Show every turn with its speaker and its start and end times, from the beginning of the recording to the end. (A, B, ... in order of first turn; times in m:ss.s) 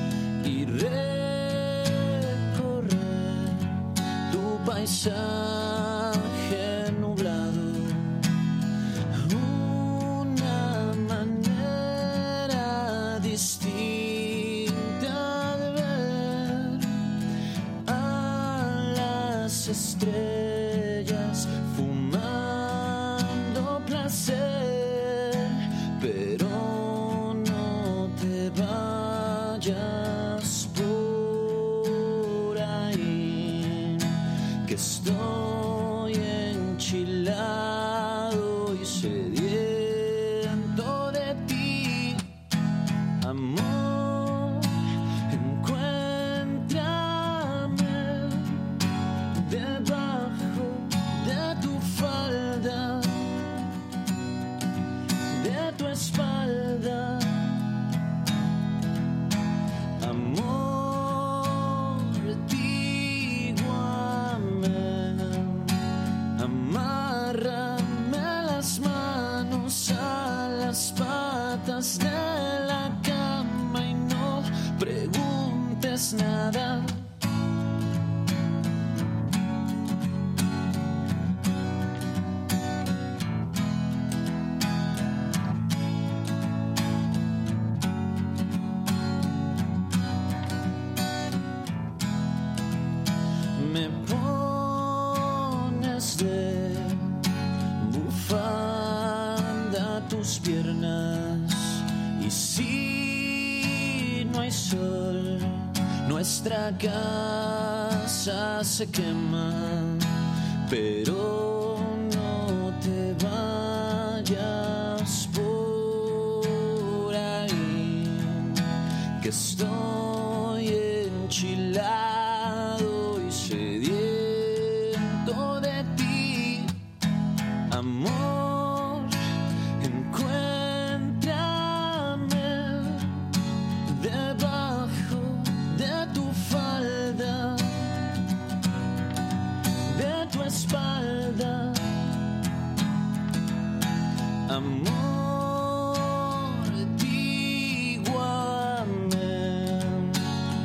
0:00.4-0:08.3 A
0:09.1-0:17.1 A
0:17.8-0:42.3 A
0:43.2-0:48.8 A
0:49.3-0:53.4 A
0:55.3-0:57.8 A
1:00.0-1:05.8 A
1:06.4-1:17.1 A
1:33.6-1:37.2 A
1:37.8-1:50.1 A
1:50.7-1:58.6 A
1:59.2-2:06.8 A
2:07.7-2:09.2 A
2:09.8-2:13.3 A
2:13.9-2:17.9 A
2:19.9-2:22.2 A
2:24.5-2:30.2 A